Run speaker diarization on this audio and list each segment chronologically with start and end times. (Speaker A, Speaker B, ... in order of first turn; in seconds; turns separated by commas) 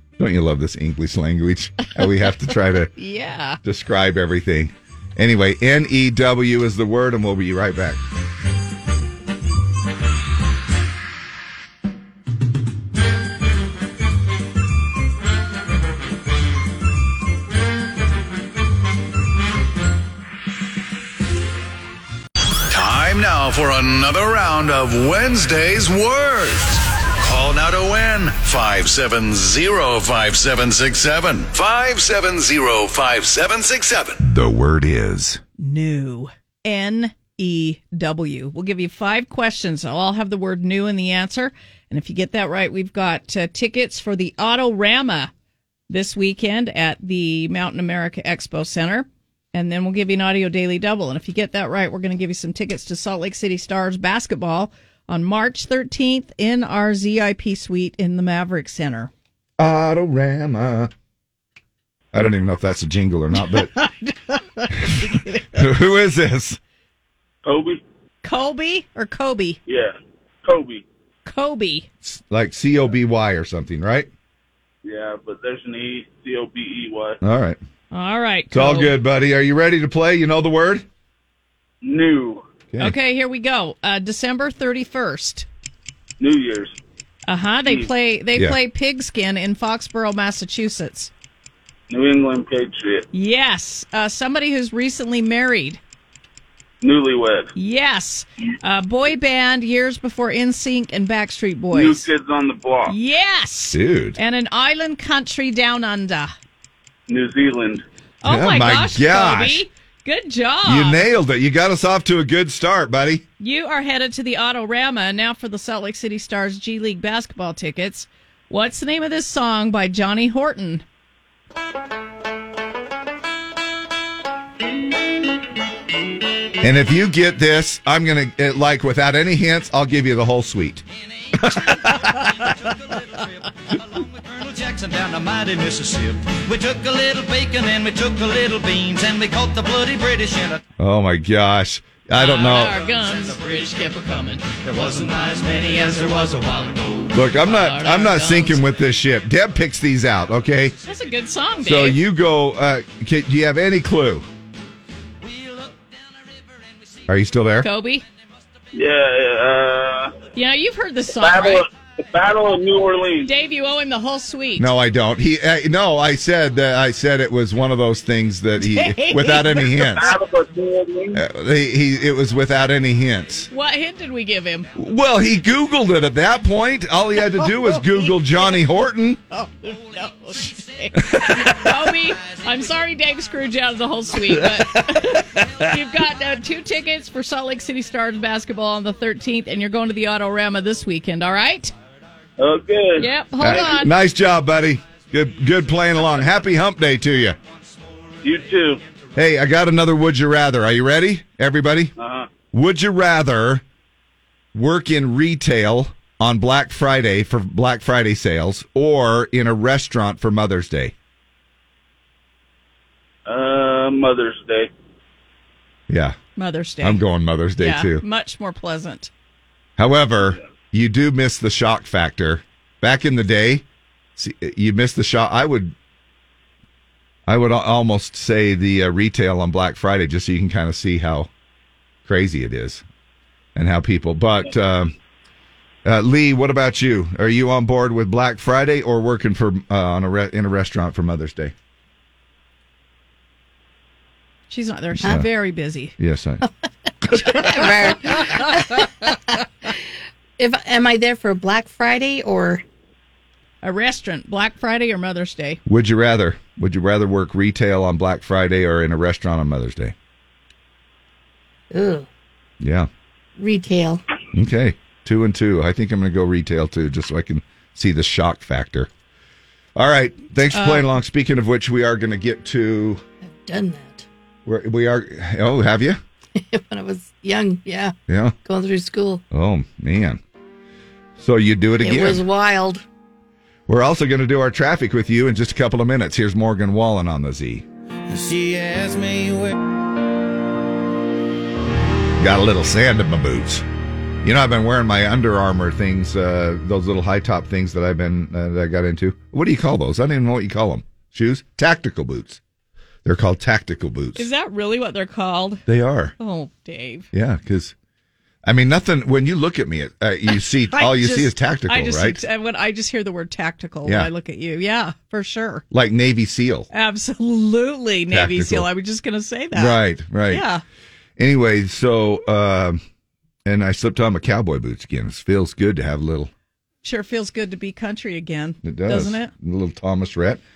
Speaker A: 0.2-2.9, Speaker B: 3.0-3.6, Speaker A: 3.6-8.0, Speaker C: 22.7-34.2, Speaker A: 34.2-35.4, Speaker B: 35.6-45.3, Speaker B: 45.9-59.1, Speaker A: 59.6-60.9, Speaker A: 62.1-63.7, Speaker B: 63.5-65.6, Speaker A: 65.5-66.6, Speaker D: 67.5-67.8, Speaker B: 68.2-69.6, Speaker D: 69.7-70.8, Speaker B: 71.2-71.9, Speaker A: 72.0-74.1, Speaker D: 74.8-77.2, Speaker A: 77.2-77.6, Speaker B: 77.9-78.9, Speaker A: 78.5-80.8, Speaker D: 81.8-82.5, Speaker B: 82.8-85.5, Speaker D: 86.2-86.8, Speaker B: 87.3-91.1, Speaker D: 91.9-93.1, Speaker B: 93.1-95.8, Speaker D: 96.8-97.5, Speaker B: 97.5-102.1, Speaker D: 101.7-103.0, Speaker B: 102.9-106.3, Speaker A: 103.7-104.2, Speaker D: 107.1-107.8, Speaker B: 108.2-111.0, Speaker A: 108.2-109.7, Speaker A: 110.7-113.2, Speaker B: 113.4-120.8, Speaker A: 126.6-130.8, Speaker A: 131.4-132.0, Speaker E: 134.0-140.6, Speaker A: 140.8-142.8, Speaker B: 142.2-144.6, Speaker E: 144.6-147.1, Speaker A: 147.1-150.8, Speaker B: 147.4-148.6, Speaker B: 150.8-152.0, Speaker A: 151.6-154.3, Speaker A: 157.1-157.7, Speaker B: 157.6-158.1, Speaker D: 158.7-160.2, Speaker B: 160.3-161.7, Speaker D: 161.2-163.3, Speaker B: 163.2-164.7, Speaker A: 164.6-170.1, Speaker B: 168.6-170.0, Speaker D: 169.9-171.2, Speaker A: 171.1-173.5, Speaker B: 173.5-174.7, Speaker A: 174.8-179.2, Speaker B: 177.7-178.6, Speaker B: 179.3-191.7, Speaker A: 181.1-181.5, Speaker A: 184.4-185.1, Speaker D: 192.4-193.1, Speaker B: 193.0-193.9, Speaker A: 193.4-197.4, Speaker D: 198.2-198.8, Speaker A: 199.2-201.9, Speaker D: 202.0-202.3, Speaker A: 202.5-203.6, Speaker A: 204.5-210.9, Speaker D: 213.3-214.7, Speaker A: 215.9-216.2, Speaker B: 216.4-217.0, Speaker A: 216.8-218.0, Speaker B: 217.6-219.1, Speaker A: 219.8-223.6, Speaker A: 224.2-225.8, Speaker A: 227.3-231.3, Speaker A: 232.1-232.8, Speaker A: 233.6-234.9, Speaker A: 235.8-241.5, Speaker B: 244.5-245.9, Speaker A: 245.0-245.3, Speaker A: 246.0-246.4, Speaker F: 247.1-249.7, Speaker F: 250.4-252.6, Speaker B: 253.6-255.6, Speaker A: 255.7-259.9, Speaker F: 261.7-262.1, Speaker A: 262.6-262.9, Speaker F: 263.4-264.0, Speaker A: 264.3-268.9, Speaker A: 269.8-273.0, Speaker B: 270.5-270.9, Speaker F: 273.2-274.1, Speaker A: 274.5-276.0, Speaker F: 276.4-279.2, Speaker A: 278.1-278.4, Speaker A: 279.3-280.2, Speaker A: 281.2-282.2, Speaker F: 281.8-282.8, Speaker A: 283.7-287.6, Speaker E: 288.1-289.5, Speaker A: 292.2-293.6, Speaker A: 294.2-302.4, Speaker A: 303.1-304.3, Speaker B: 304.2-305.6, Speaker A: 305.7-306.1, Speaker B: 306.2-307.1, Speaker A: 307.1-307.8, Speaker A: 308.4-312.2, Speaker B: 310.7-315.6, Speaker A: 313.9-314.1, Speaker A: 315.7-316.7, Speaker B: 316.7-320.6, Speaker A: 318.1-318.7, Speaker A: 319.5-320.4, Speaker A: 321.2-322.8, Speaker A: 323.4-326.3, Speaker B: 326.8-329.3, Speaker A: 328.6-330.4